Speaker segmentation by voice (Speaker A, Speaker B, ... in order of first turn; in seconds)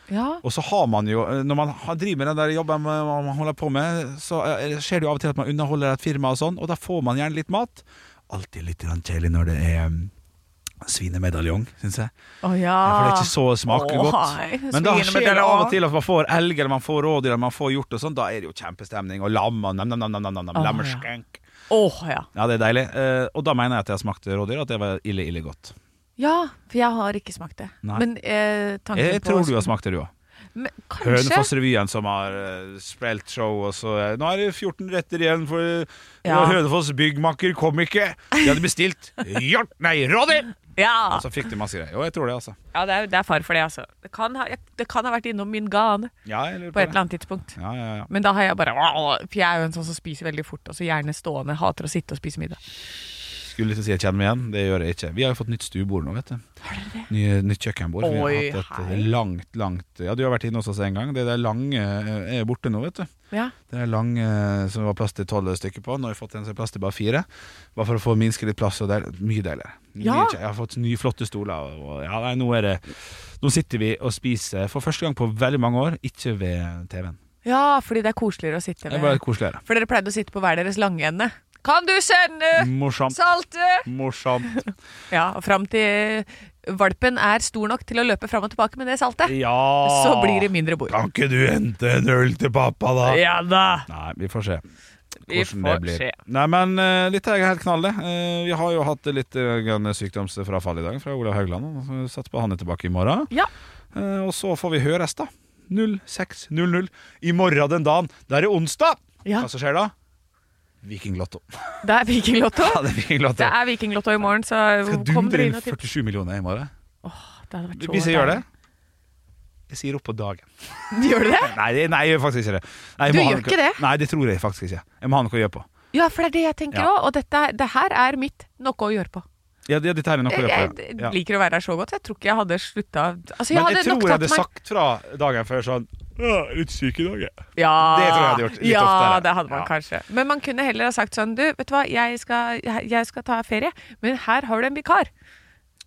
Speaker A: 0.1-0.4, 12.4-15.8, 20.6-21.1, 21.7-22.3, 26.2-29.7, 30.6-31.5, 36.2-36.6, 40.8-41.2, 42.7-46.1, 46.7-47.5, 48.1-52.6, 56.6-57.1, 58.0-59.1, 70.0-70.4, 77.5-83.9, 85.1-91.0, 93.0-93.9, 95.3-96.2, 111.8-115.8, 117.0-118.4, 120.9-121.6, 123.1-123.8, 125.9-129.2, 130.3-134.5, 137.6-145.1
Speaker B: 0.4-10.1, 10.8-12.1, 12.8-21.4, 22.3-25.8, 28.9-30.1, 31.0-40.6, 41.1-42.6, 46.3-47.0, 47.6-48.1, 53.4-56.4, 57.1-63.1, 63.7-77.2, 78.9-79.6, 82.5-83.2, 83.8-84.6, 89.2-93.2, 93.9-94.6, 95.3-103.3, 103.9-109.9, 110.8-111.8, 112.6-113.6, 114.8-116.7, 117.8-118.5, 119.7-120.5, 121.4-125.7, 129.7-131.2, 133.5-139.7